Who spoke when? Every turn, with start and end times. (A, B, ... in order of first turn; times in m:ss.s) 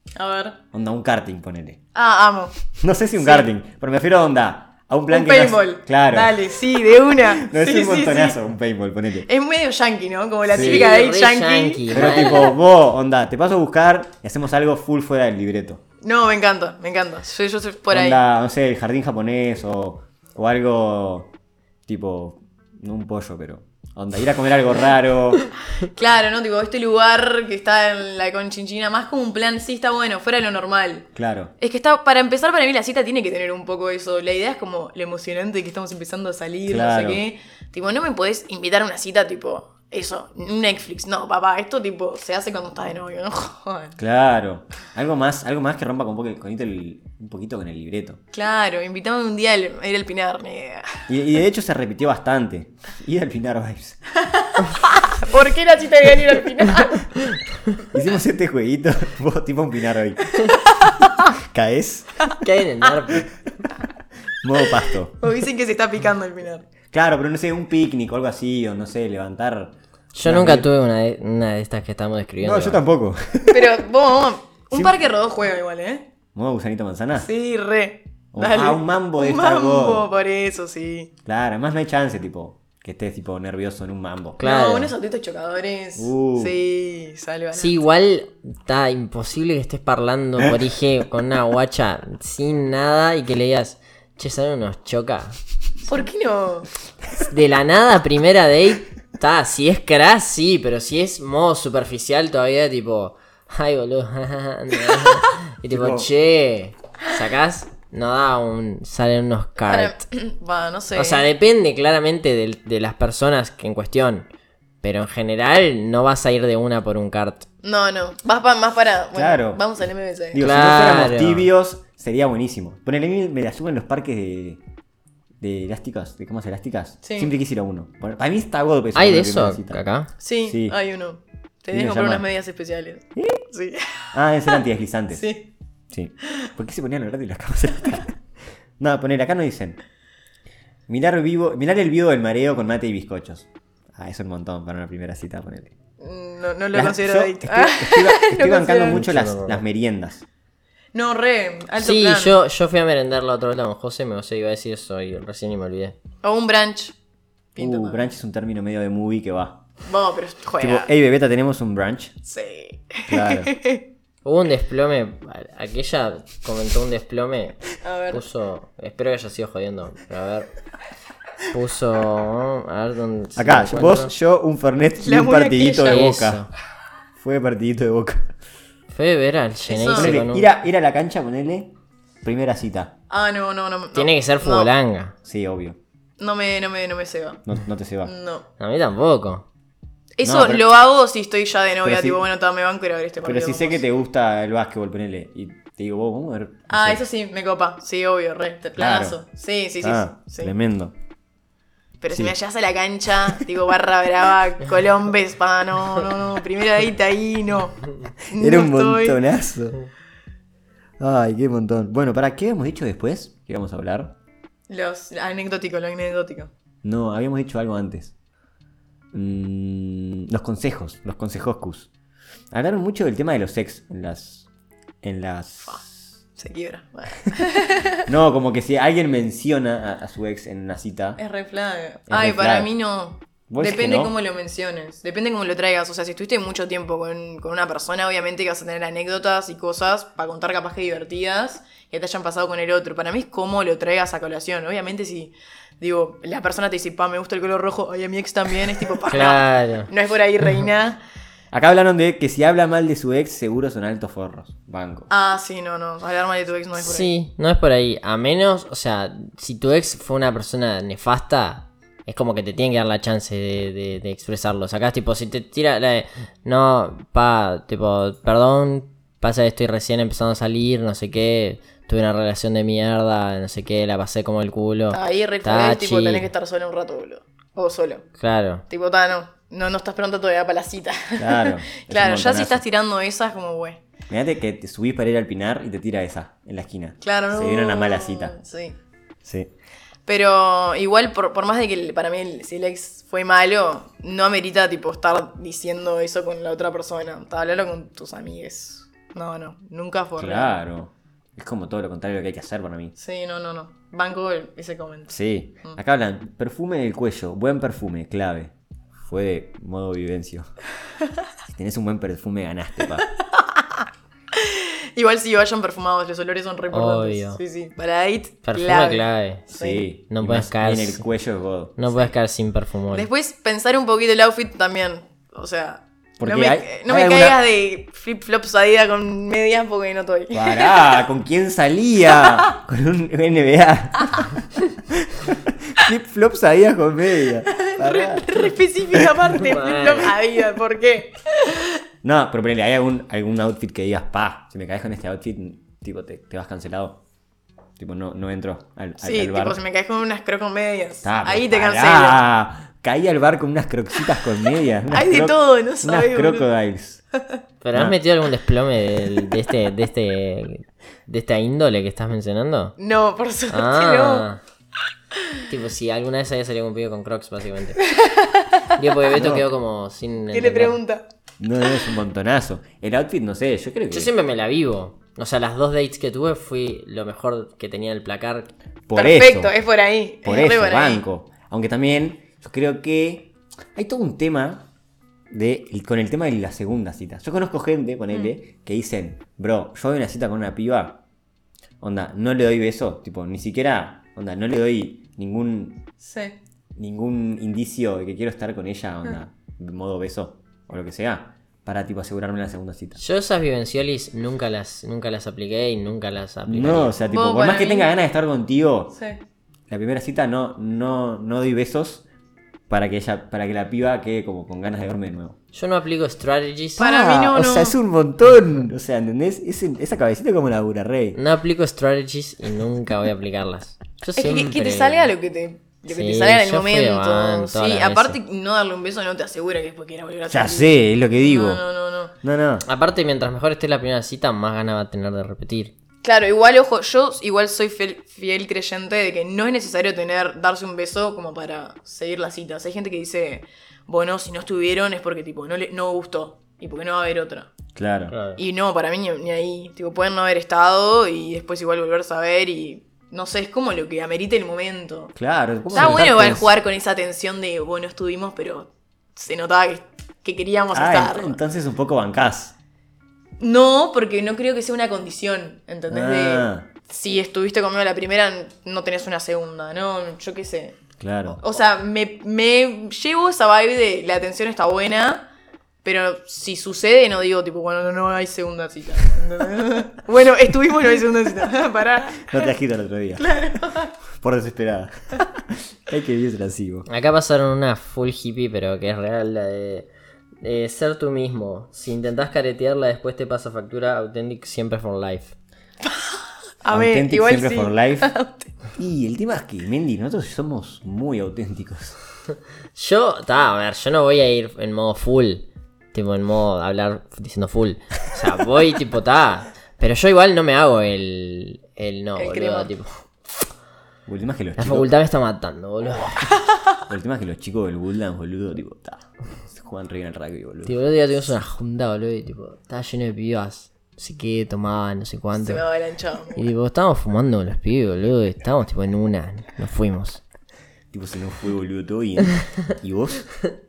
0:00.2-0:00.6 A
0:00.7-0:01.8 B
0:01.9-0:02.6 A
0:02.8-0:06.5 B
0:03.2-0:03.5 A
0:05.1-0:08.4 A
0:07.3-0:09.3 B
0:09.2-0:12.5 A
0:10.5-0:10.9 B
0:10.5-0:12.6 C
0:11.9-0:15.8 B
0:16.0-0:18.2 A
0:17.9-0:21.3 B
0:21.9-0:25.5 B
0:25.8-0:44.0 A
0:31.2-0:31.5 B
0:36.7-0:37.2 B
0:44.0-0:48.2 B
0:48.3-0:51.0 A
0:51.1-0:54.0 B
0:54.2-0:57.1 A
0:57.9-1:00.3 B
1:01.4-1:02.2 B
1:02.4-1:03.3 C
1:04.4-1:05.2 B
1:05.2-1:06.7 A
1:06.9-1:10.7 B
1:10.1-1:12.8 C
1:12.4-1:13.7 B
1:13.5-1:16.1 A
1:14.7-1:15.0 B
1:16.4-1:17.3 B
1:17.2-1:21.1 A
1:18.3-1:20.1 B
1:21.2-1:24.4 B
1:24.4-1:24.9 C
1:24.4-1:27.8 A
1:26.0-1:26.6 B
1:27.5-1:35.4 C
1:35.8-1:36.7 A
1:37.3-1:50.0 C
1:45.7-1:46.1 B
1:49.7-1:51.3 A
1:51.0-1:54.3 C
1:54.8-1:57.5 C
1:57.6-2:00.4 A
1:59.2-1:59.6 B
2:00.3-2:04.6 B
2:00.4-2:01.5 C
2:05.4-2:09.8 B
2:07.0-2:07.3 A
2:09.0-2:10.1 C
2:10.2-2:14.6 A
2:10.5-2:10.8 B
2:11.7-2:12.2 B
2:13.2-2:13.4 B
2:14.1-2:15.3 B
2:15.1-2:15.5 A
2:15.9-2:18.2 B
2:18.8-2:19.8 B
2:20.9-2:25.8 B
2:26.0-2:29.0 A
2:26.7-2:30.2 B
2:28.9-2:29.6 C
2:30.9-2:32.4 A
2:31.8-2:36.0 C
2:36.2-2:37.0 A
2:37.6-2:38.0 A
2:37.6-2:39.6 B
2:39.8-2:40.9 A
2:40.6-2:42.2 B
2:42.2-2:43.8 A
2:43.1-2:43.5 B
2:44.2-2:50.5 C
2:47.8-2:48.2 A
2:51.5-2:54.1 C
2:53.4-2:56.5 B
2:55.0-2:56.1 A
2:55.8-2:56.5 C
2:57.2-2:58.3 B
2:58.9-3:00.5 C
2:59.7-3:00.2 A
2:59.9-3:02.9 B
3:03.1-3:04.7 A
3:03.9-3:05.1 C
3:05.2-3:05.8 B
3:06.2-3:07.4 A
3:07.4-3:08.1 B
3:08.0-3:08.5 A
3:08.6-3:09.4 C
3:10.2-3:13.8 A
3:10.2-3:10.7 B
3:11.8-3:12.2 B
3:13.2-3:17.0 B
3:16.7-3:20.5 A
3:18.8-3:19.2 B
3:19.8-3:20.9 B
3:22.0-3:29.2 A
3:28.3-3:29.8 B
3:31.0-3:34.2 B
3:34.7-3:36.5 A
3:36.8-3:38.1 B
3:39.1-3:41.9 B
3:42.5-3:44.5 B
3:45.0-3:46.2 B
3:46.4-3:48.0 A
3:48.1-3:51.2 B
3:51.2-4:11.0 A
3:52.1-3:52.7 B
3:53.5-3:54.2 B
4:09.1-4:09.9 C
4:11.5-4:15.1 B
4:15.1-4:17.1 A
4:16.8-4:36.3 C
4:34.9-4:38.1 A
4:38.2-4:38.6 C
4:38.7-4:43.8 A
4:41.2-4:42.6 B
4:44.1-4:48.4 B
4:47.0-4:48.8 A
4:49.2-4:49.5 B
4:50.1-5:00.6 A
5:00.2-5:03.0 B
5:03.0-5:05.8 A
5:05.1-5:10.5 B
5:11.5-5:13.1 B
5:13.2-5:19.9 A
5:16.7-5:17.4 C
5:18.4-5:19.4 C
5:19.5-5:21.8 B
5:20.1-5:21.0 C
5:21.8-5:23.1 C
5:22.9-5:30.8 A
5:26.2-5:27.4 B
5:30.3-5:34.4 B
5:32.1-5:32.4 A
5:34.9-5:38.3 B
5:37.6-5:41.8 A
5:39.4-5:40.1 C
5:42.0-5:47.0 B
5:47.8-5:49.6 B
5:49.0-5:52.2 A
5:51.0-5:57.0 B
5:54.9-5:56.5 A
5:57.1-5:57.4 A
5:57.6-6:02.8 C
6:02.8-6:04.3 A
6:03.5-6:04.4 C
6:05.5-6:07.8 C
6:07.8-6:08.8 A
6:08.8-6:10.8 C
6:09.1-6:09.4 B
6:10.3-6:11.0 A
6:11.4-6:14.1 B
6:13.9-6:18.5 C
6:18.9-6:19.5 B
6:19.0-6:21.0 A
6:20.2-6:24.7 B
6:25.3-6:31.0 B
6:31.8-6:35.9 B
6:36.0-6:36.4 A
6:36.8-6:43.0 B
6:43.0-6:46.9 C
6:46.5-6:49.0 B
6:47.0-6:47.9 A
6:48.9-6:49.2 A
6:49.7-6:52.0 B
6:52.7-6:55.4 B
6:55.5-6:56.9 C
6:56.8-6:57.8 A
6:56.8-7:01.2 B
7:01.2-7:05.1 C
7:04.2-7:12.1 A
7:05.9-7:08.2 C
7:10.3-7:11.6 B
7:12.2-7:12.6 B
7:12.7-7:15.7 C
7:16.0-7:27.5 A
7:27.8-7:28.1 B
7:28.1-7:28.4 C
7:28.4-7:35.1 A
7:35.2-7:36.5 B
7:35.7-7:41.4 A
7:40.7-7:42.6 B
7:43.4-7:50.8 A
7:45.9-7:46.7 B
7:51.0-7:51.4 B
7:51.4-7:55.3 A
7:55.8-8:02.5 A
8:02.2-8:03.4 B
8:03.2-8:03.9 A
8:04.1-8:06.9 B
8:06.9-8:09.9 C
8:10.4-8:15.3 C
8:15.8-8:18.5 A
8:16.7-8:18.1 B
8:18.7-8:22.0 B
8:22.8-8:33.0 C
8:32.2-8:32.7 A
8:34.1-8:34.9 B
8:34.6-8:36.3 C
8:36.9-8:40.8 B
8:40.7-8:45.6 C
8:45.4-8:46.4 A
8:46.4-8:50.2 C
8:50.9-8:53.3 B